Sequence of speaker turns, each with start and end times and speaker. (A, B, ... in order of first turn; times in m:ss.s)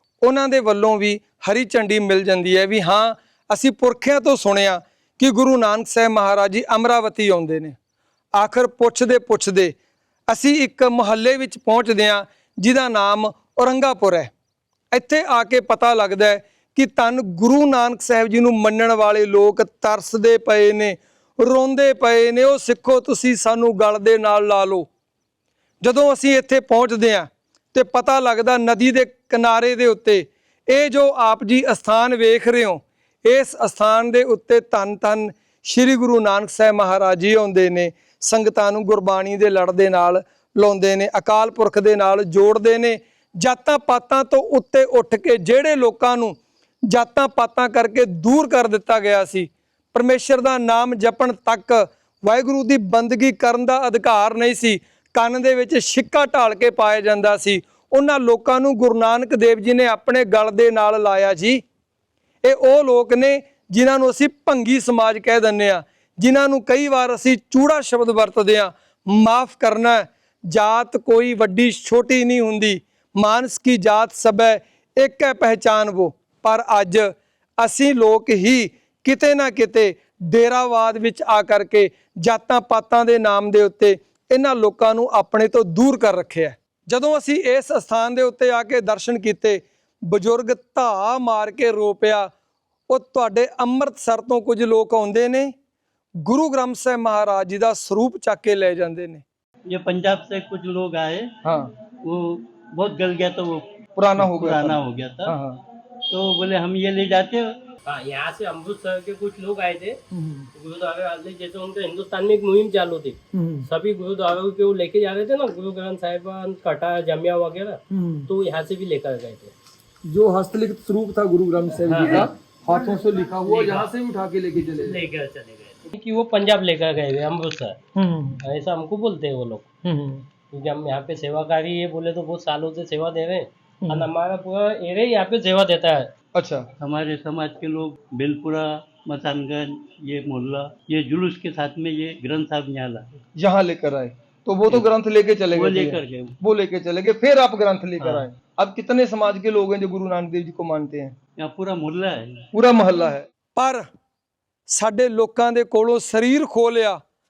0:00.2-0:07.8 A
0:08.4-0:09.8 A
0:10.3-0:14.3 A
0:14.9-0:24.9 A
0:25.8-0:46.4 A
0:46.9-1:01.6 A
1:02.4-1:32.3 A
1:32.9-1:35.5 A
1:36.2-1:39.2 A
1:39.7-1:41.3 B
1:41.4-1:41.7 A
1:42.0-1:45.4 B
1:44.0-1:45.6 A
1:46.1-1:47.6 B
1:47.9-1:50.0 C
1:50.1-1:50.5 A
1:50.6-1:59.6 C
1:53.3-1:53.7 A
1:57.9-1:58.3 A
2:00.1-2:05.0 A
2:01.8-2:02.3 C
2:03.5-2:03.9 C
2:04.8-2:07.8 C
2:08.0-2:08.4 A
2:08.4-2:09.7 C
2:09.8-2:10.2 A
2:10.5-2:16.1 C
2:13.8-2:14.1 A
2:16.4-2:16.7 A
2:16.8-2:23.1 B
2:23.4-2:31.2 A
2:25.5-2:26.4 B
2:28.0-2:28.3 B
2:31.4-2:32.4 B
2:32.5-2:33.8 A
2:34.7-2:37.0 A